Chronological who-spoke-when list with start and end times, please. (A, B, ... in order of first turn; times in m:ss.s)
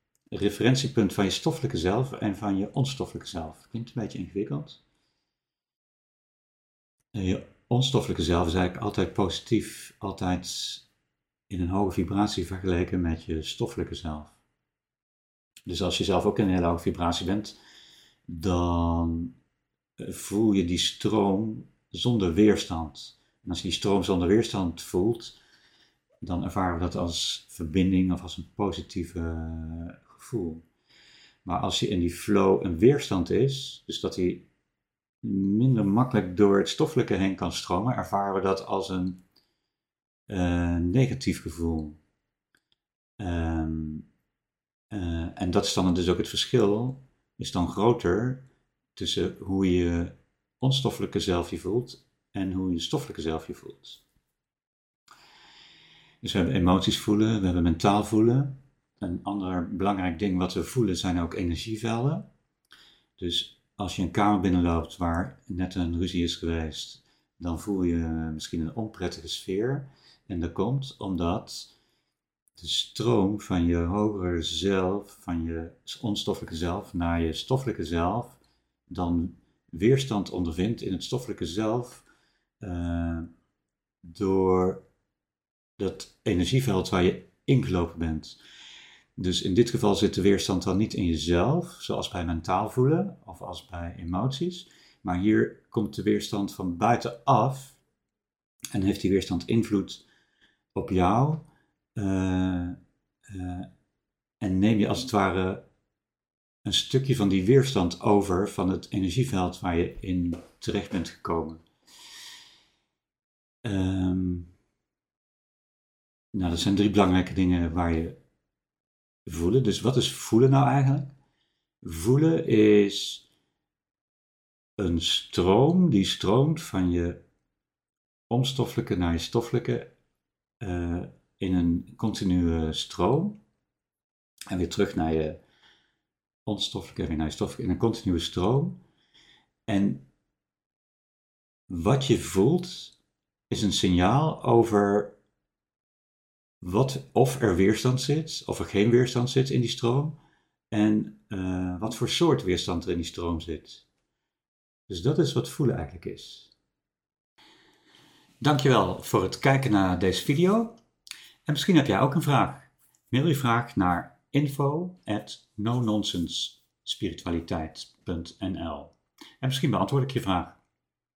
0:00.3-0:04.8 A
0:07.1-0:10.8 A
0:11.5-0:14.4 A
0:15.7-0:17.6 A
0:18.3-0:19.3 A
0:20.0-0:25.4 A
0:26.2-0:30.6 A
0:31.4-0:34.4 A
0:35.2-0:39.2 A
0:40.3-0:42.0 A
0:43.2-0:44.0 A
0:44.9-0:48.4 A
0:49.0-0:54.0 A
0:56.2-1:02.2 A
1:03.2-1:11.7 A
1:12.6-1:22.0 A
1:22.6-1:23.3 A
1:24.0-1:24.8 A
1:25.8-1:28.4 A
1:29.2-1:37.8 A
1:38.7-1:40.0 A
1:40.7-1:42.8 A
1:43.3-1:43.7 A
1:44.4-1:45.6 A
1:46.6-1:51.6 A
1:53.6-1:54.5 A
1:56.3-1:58.2 A
1:59.2-2:01.1 A
2:01.8-2:03.2 A
2:04.8-2:07.2 A
2:08.3-2:09.9 A
2:10.6-2:13.4 A
2:14.5-2:15.4 A
2:16.4-2:18.8 A
2:19.7-2:20.0 A
2:21.7-2:23.0 A
2:23.5-2:25.1 A
2:26.6-2:30.2 A
2:30.7-2:33.9 A
2:34.9-2:36.5 A
2:38.4-2:40.7 A
2:41.4-2:50.6 A